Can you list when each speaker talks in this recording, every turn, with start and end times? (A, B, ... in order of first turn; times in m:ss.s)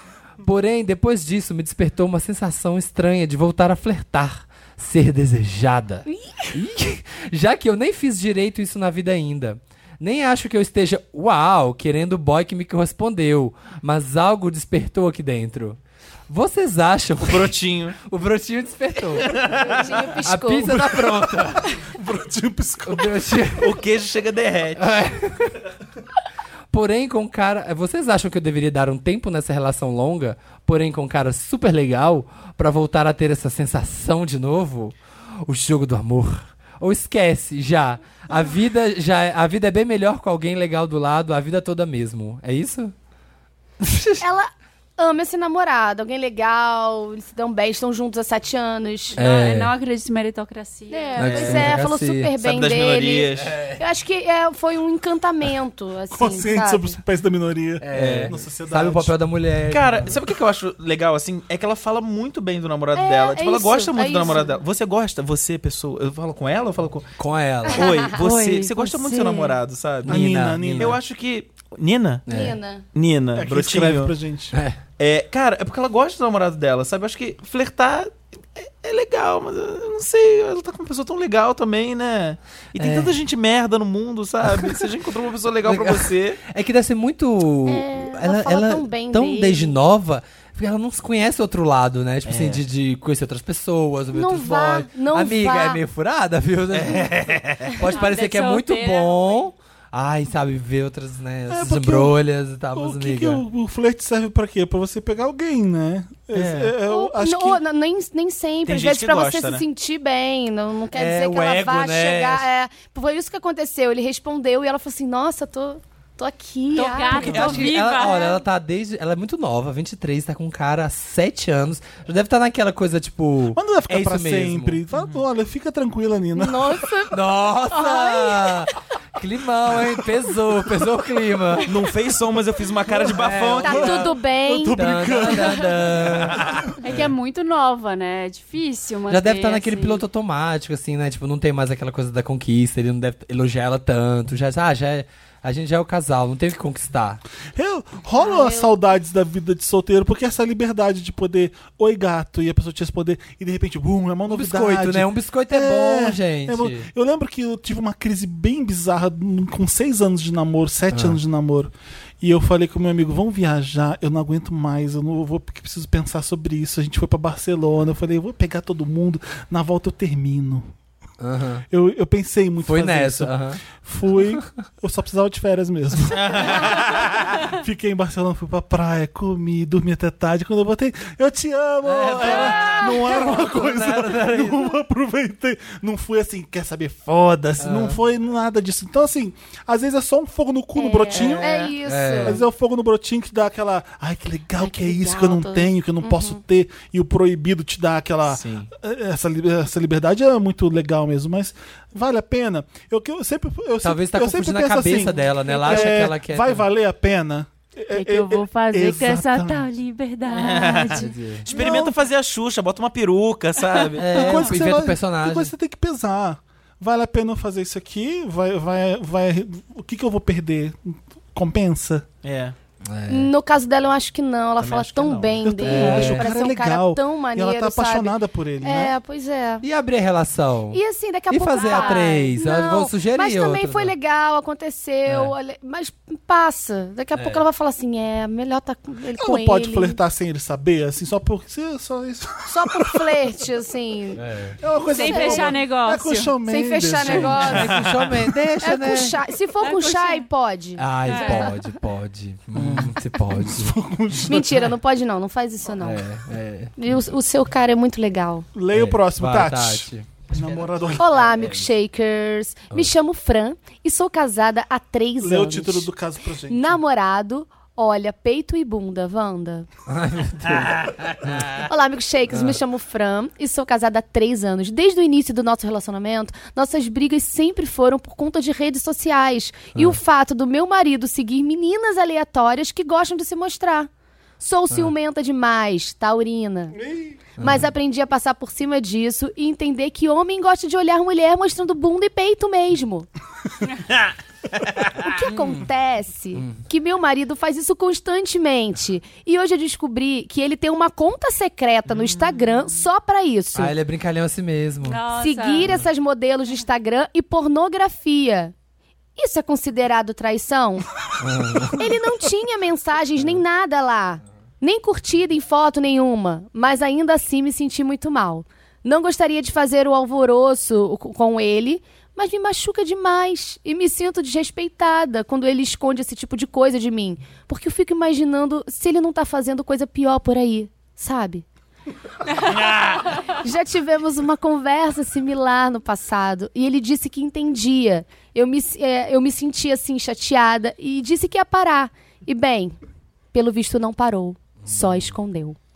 0:00.4-0:19.4 A
0:06.1-0:06.5 B
0:17.2-0:18.0 C
0:19.1-0:20.0 C
0:19.4-0:20.8 B
0:20.2-0:21.8 A
0:20.6-0:23.4 D
0:22.8-0:23.8 A
0:23.6-0:24.9 C
0:24.8-0:25.6 A
0:26.7-0:42.9 A
0:43.8-0:44.2 A
0:44.2-0:49.2 B
0:49.2-0:49.7 A
0:49.2-0:51.3 E
0:50.9-0:57.0 B
0:51.2-0:52.3 A
0:51.2-0:51.7 C
0:52.4-0:53.6 C
0:53.4-0:53.8 A
0:56.1-0:59.1 D
0:57.8-1:00.2 A
0:57.9-0:58.4 C
0:59.7-1:07.1 C
1:02.9-1:04.6 B
1:07.2-1:08.1 A
1:07.7-1:08.1 B
1:07.7-1:12.2 C
1:08.1-1:09.6 E
1:10.0-1:11.0 A
1:10.1-1:11.0 D
1:12.2-1:12.6 A
1:12.3-1:12.8 B
1:12.9-1:14.1 C
1:13.3-1:14.6 D
1:14.5-1:14.8 A
1:15.0-1:26.4 C
1:22.8-1:23.2 A
1:24.4-1:24.9 A
1:25.6-1:43.4 A
1:27.6-1:29.8 B
1:32.2-1:32.6 C
1:34.1-1:35.8 B
1:36.7-1:37.8 C
1:37.8-1:39.5 E
1:41.5-1:42.2 D
1:42.7-1:47.6 D
1:46.3-1:46.7 C
1:46.8-1:57.6 B
1:48.6-1:49.6 C
1:50.9-1:52.5 A
1:56.7-1:58.4 E
1:56.8-2:04.8 A
2:03.5-2:06.8 D
2:06.3-2:08.7 B
2:07.1-2:11.7 A
2:11.6-2:14.1 C
2:13.0-2:14.0 A
2:13.6-2:15.6 B
2:14.0-2:16.6 D
2:14.7-2:17.1 A
2:16.8-2:20.0 E
2:19.1-2:27.2 A
2:27.5-2:50.7 D
2:28.2-2:28.7 B
2:34.3-2:36.9 A
2:40.9-2:41.2 A
2:51.2-2:51.6 A
2:51.7-3:29.7 D
2:52.6-2:53.6 A
2:56.1-2:57.4 C
3:01.8-3:04.7 A
3:02.3-3:03.2 B
3:07.6-3:08.0 A
3:10.8-3:12.4 B
3:11.1-3:12.4 A
3:14.6-3:16.4 B
3:18.3-3:18.7 C
3:23.8-3:26.6 A
3:27.9-3:31.0 E
3:30.3-3:34.4 C
3:30.9-3:31.4 A
3:31.5-3:32.0 D
3:34.0-3:35.5 A
3:34.1-3:42.1 D
3:42.2-3:42.5 C
3:42.9-3:43.3 A
3:43.1-3:49.6 B
3:44.6-3:45.4 C
3:45.4-3:48.9 D
3:45.6-3:46.3 A
3:49.6-3:53.9 A
3:50.7-4:00.0 B
3:51.6-3:52.2 E
3:55.1-3:55.3 A
3:57.1-3:57.4 A
3:59.1-4:03.1 D
4:02.5-4:04.2 B
4:04.2-4:04.6 A
4:04.6-4:07.6 D
4:04.9-4:06.3 E
4:05.0-4:05.6 B
4:06.4-4:07.8 B
4:07.1-4:09.2 A
4:07.6-4:08.2 C
4:08.6-4:11.6 B
4:09.6-4:10.3 E
4:10.8-4:13.7 A
4:11.0-4:11.6 E
4:12.6-4:14.7 D
4:14.2-4:16.0 B
4:15.8-4:16.7 A
4:16.8-4:18.5 B
4:18.5-4:21.4 D
4:18.7-4:20.2 A
4:21.0-4:25.9 B
4:25.2-4:26.8 D
4:26.5-4:29.7 B
4:29.9-4:31.6 A
4:31.6-4:43.9 B
4:32.3-4:32.6 A
4:44.4-4:46.8 B
4:46.7-4:47.2 D
4:47.4-4:47.7 A
4:47.4-4:53.1 B
4:54.7-4:55.0 C
4:55.0-5:03.7 B
4:55.3-4:55.6 A
4:56.4-4:56.6 A
5:03.6-5:05.0 A
5:04.8-5:05.7 E
5:05.1-5:08.5 B
5:09.2-5:10.9 B
5:11.2-5:11.9 A
5:11.7-5:31.4 B
5:32.5-5:33.0 C
5:33.2-5:42.8 B
5:43.3-5:45.6 B
5:44.6-5:45.1 A